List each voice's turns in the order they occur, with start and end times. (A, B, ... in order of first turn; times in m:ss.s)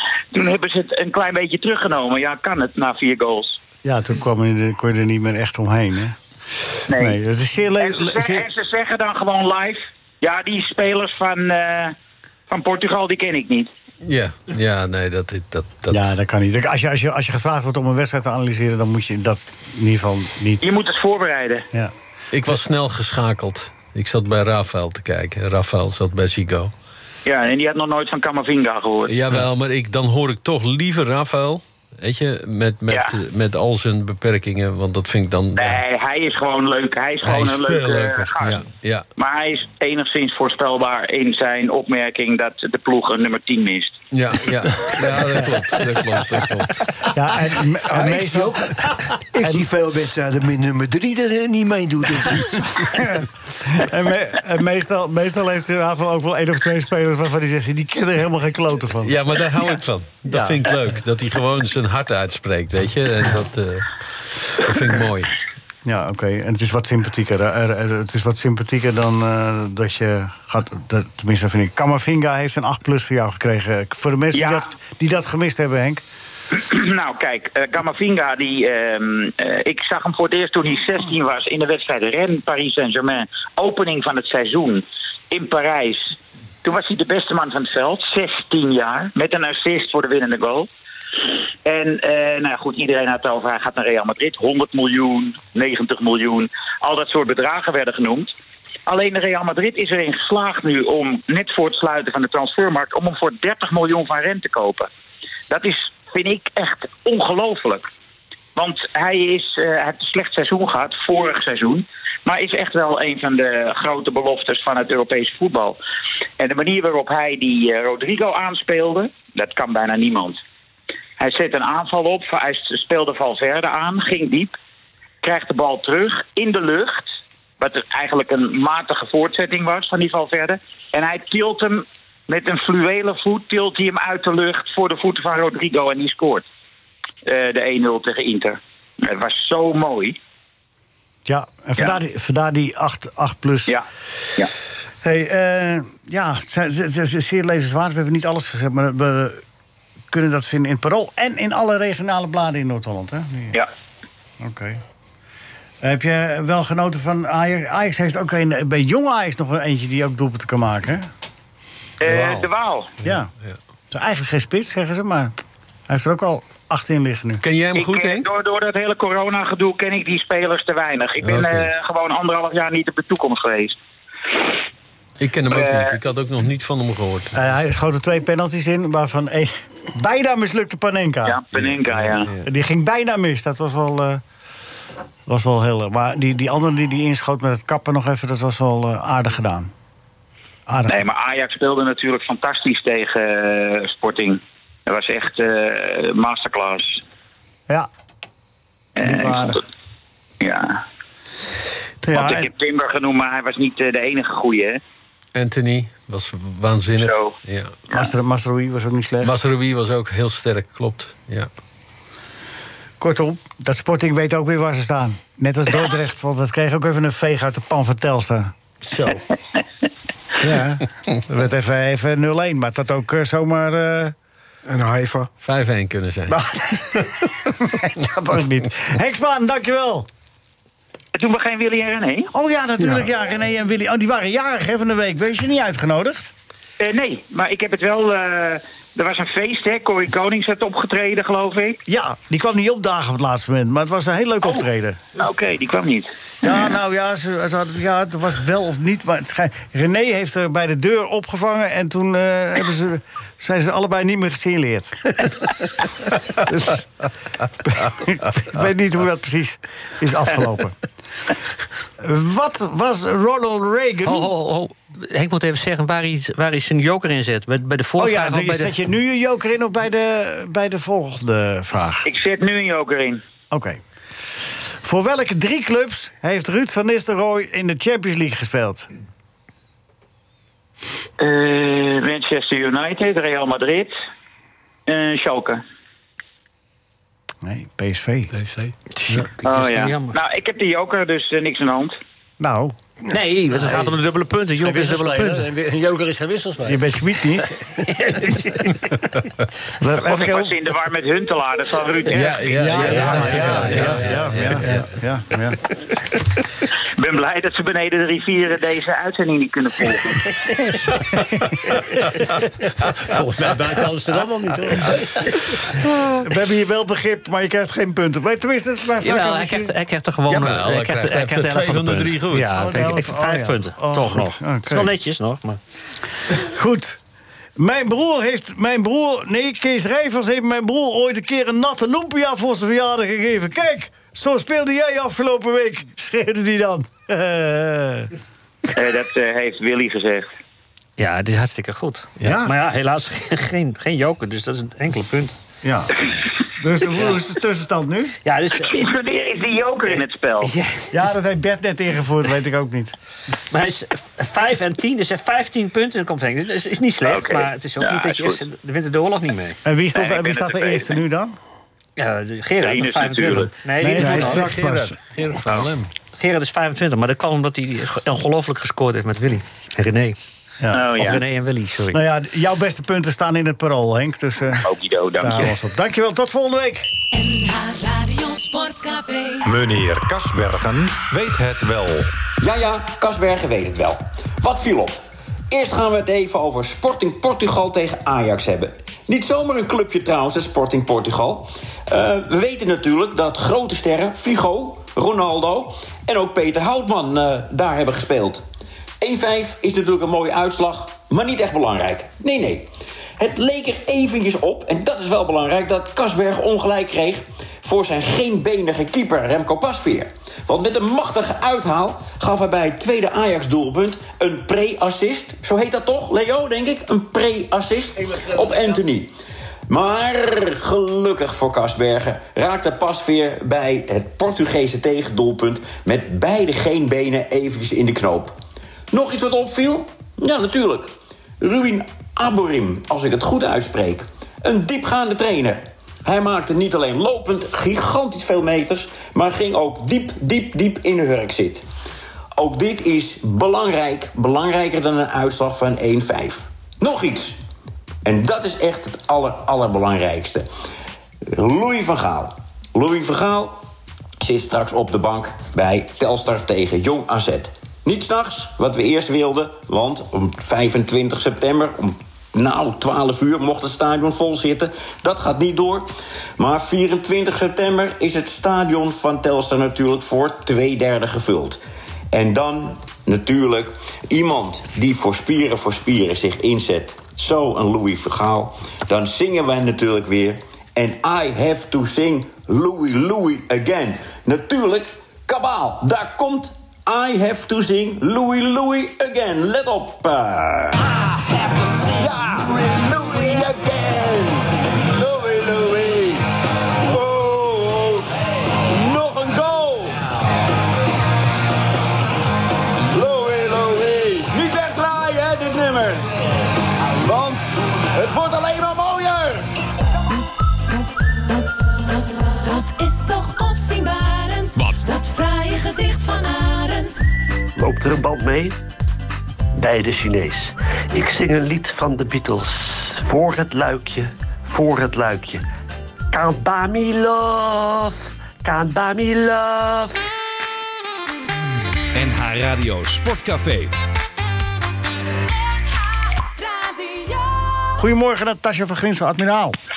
0:00.3-0:03.6 A
0:03.8-0:06.2 B
0:06.9-0:07.2 A
0:06.9-0:08.5 B
0:07.8-0:12.0 A
0:12.5-0:13.7 A
0:14.0-0:16.1 C
0:15.9-0:20.8 B
0:20.6-0:21.7 A
0:22.3-0:26.7 C
0:27.2-0:29.2 A
0:29.1-0:35.8 C
0:35.6-0:38.6 A
0:37.2-0:39.1 C
0:39.2-0:44.0 A
0:44.1-0:46.8 C
0:45.1-0:45.6 B
0:47.1-0:49.6 B
0:47.9-0:48.8 D
0:49.3-0:53.0 D
0:52.9-0:59.2 B
0:59.0-1:05.3 C
1:00.3-1:00.6 B
1:05.8-1:16.0 B
1:14.3-1:14.6 A
1:16.5-1:30.7 A
1:31.6-1:44.9 A
1:45.5-1:47.9 A
1:48.6-1:55.8 A
1:56.4-2:00.4 A
2:01.2-2:04.6 A
2:05.2-2:16.4 A
2:17.2-2:20.2 A
2:21.3-2:23.8 B
2:25.0-2:29.4 B
2:30.1-2:33.6 B
2:34.4-2:34.8 B
2:35.8-2:41.1 B
2:42.0-2:42.9 A
2:42.0-2:42.5 C
2:43.0-2:43.3 B
2:43.0-2:43.6 C
2:43.9-2:45.4 B
2:45.9-2:47.4 B
2:47.4-2:48.3 C
2:47.8-2:53.8 A
2:51.2-2:51.7 C
2:55.2-2:57.6 C
2:55.5-2:56.0 A
2:57.4-3:01.4 B
3:01.3-3:02.3 A
3:01.5-3:02.4 C
3:02.4-3:04.2 B
3:05.3-3:09.7 B
3:10.7-3:11.0 B
3:10.9-3:17.0 A
3:19.0-3:19.6 A
3:19.0-3:19.6 B
3:20.4-3:20.8 A
3:22.0-3:22.5 B
3:22.1-3:24.8 A
3:25.4-3:27.8 C
3:27.0-3:27.4 A
3:27.9-3:29.3 B
3:29.2-3:31.5 C
3:33.0-3:38.5 B
3:38.8-3:39.2 C
3:40.4-3:44.1 B
3:44.7-3:45.3 D
3:45.4-3:46.4 C
3:46.3-3:50.1 B
3:51.1-3:52.3 A
3:52.3-3:56.3 B
3:52.8-3:53.1 D
3:56.8-4:01.8 A
4:01.9-4:05.0 B
4:05.2-4:06.7 A
4:06.4-4:15.3 B
4:16.4-4:16.9 B
4:17.6-4:20.8 B
4:22.0-4:24.3 B
4:24.0-4:28.8 E
4:28.0-4:32.1 B
4:32.0-4:33.2 A
4:33.5-4:33.8 B
4:34.8-4:38.9 B
4:41.2-4:44.0 A
4:44.9-4:45.6 A
4:47.4-4:48.3 B
4:48.3-4:48.7 F
4:49.0-4:50.2 E
4:49.4-4:52.0 A
4:52.4-4:52.8 B
4:53.1-4:55.5 E
4:53.5-4:54.0 F
4:54.5-4:56.9 F
4:56.7-4:57.5 B
4:57.4-4:58.7 F
4:57.9-4:58.4 E
4:59.8-5:00.6 B
5:00.0-5:02.9 A
5:02.1-5:04.9 C
5:02.6-5:05.6 B
5:02.8-5:04.3 F
5:07.0-5:10.4 A
5:12.9-5:15.4 F
5:15.8-5:19.7 B
5:19.0-5:25.6 E
5:20.3-5:23.0 C
5:22.5-5:24.9 B
5:26.3-5:27.0 B
5:27.6-5:38.1 B
5:38.7-5:40.3 A
5:41.0-5:45.4 E
5:42.2-5:42.5 B
5:45.6-5:48.2 B
5:48.2-5:48.8 E
5:48.6-5:50.5 A
5:50.4-5:50.9 E
5:50.9-5:53.0 B
5:53.5-5:59.6 E
5:57.0-5:58.4 A
5:59.6-6:01.4 B
6:00.0-6:01.0 A
6:02.0-6:04.5 E
6:02.6-6:03.6 A
6:03.8-6:05.0 B
6:03.9-6:05.9 C
6:06.2-6:10.2 E
6:10.6-6:10.9 B
6:10.7-6:11.2 A
6:11.0-6:12.0 E
6:11.9-6:16.9 B
6:14.6-6:15.6 A
6:17.1-6:19.5 G
6:19.4-6:22.1 H
6:22.4-6:38.5 I
6:39.0-6:59.1 I
6:59.7-7:08.4 I
7:08.9-7:21.7 I
7:22.4-7:27.4 I
7:28.0-7:30.5 I
7:31.3-7:33.6 I
7:34.2-7:51.6 I
7:52.1-8:20.2 I
8:22.8-8:29.5 I
8:31.9-8:37.0 G
8:34.6-8:34.8 H
8:37.6-8:38.6 J
8:39.6-8:45.4 J
8:46.1-8:50.1 J
8:51.9-8:53.7 H
8:56.2-8:57.6 G
8:57.8-8:59.6 B